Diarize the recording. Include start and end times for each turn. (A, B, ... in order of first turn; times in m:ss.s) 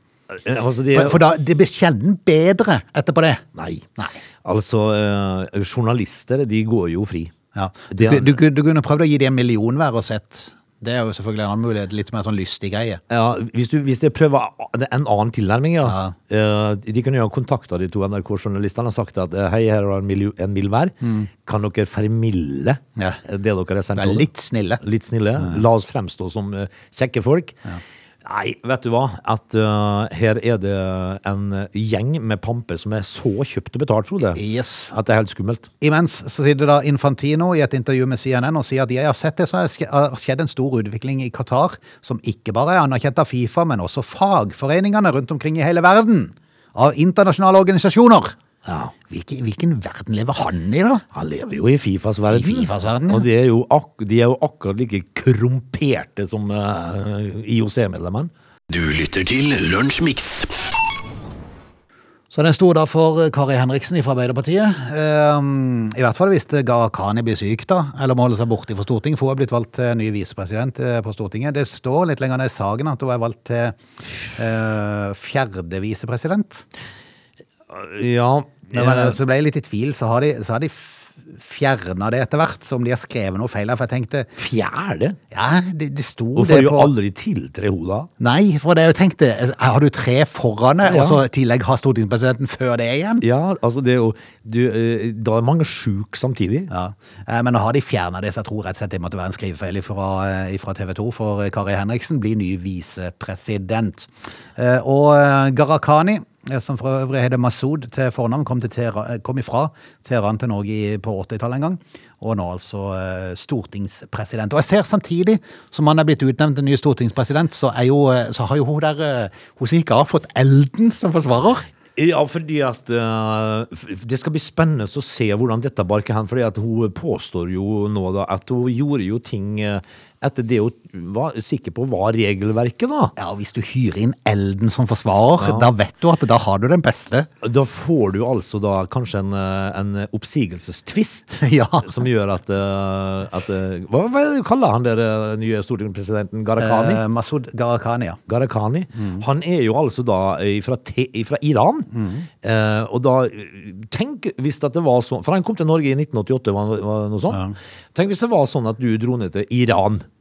0:00.3-0:01.2 A
0:00.9-0:03.4 B
0:03.6-0:03.9 A
0:04.4-0:07.3 A
0:07.6-0:13.0 B
0:07.9-0:08.4 A
0:13.1-0:24.3 A
0:15.8-0:16.1 B
0:24.0-0:24.8 B
0:24.8-0:27.6 A
0:28.2-0:34.4 A
0:34.4-0:34.9 B
0:34.9-0:35.7 A
0:35.8-0:48.4 B
0:48.6-0:48.9 A
0:49.1-0:51.0 B
0:51.1-0:58.3 A
0:52.3-0:53.3 B
0:58.7-1:00.6 C
1:02.3-1:13.8 B
1:14.3-1:16.7 B
1:17.7-1:19.2 A
1:18.7-1:24.3 B
1:24.4-1:25.2 A
1:25.3-1:26.9 B
1:26.4-1:28.1 A
1:28.2-1:33.2 B
1:30.8-1:31.2 A
1:33.2-1:36.7 A
1:36.7-2:01.7 B
2:02.0-2:13.2 A
2:13.2-2:17.3 B
2:15.4-2:15.7 A
2:17.4-2:27.0 A
2:21.4-2:22.0 B
2:26.6-2:28.2 B
2:28.3-2:37.4 A
2:29.0-2:29.2 B
2:31.9-2:32.3 B
2:38.0-2:40.1 A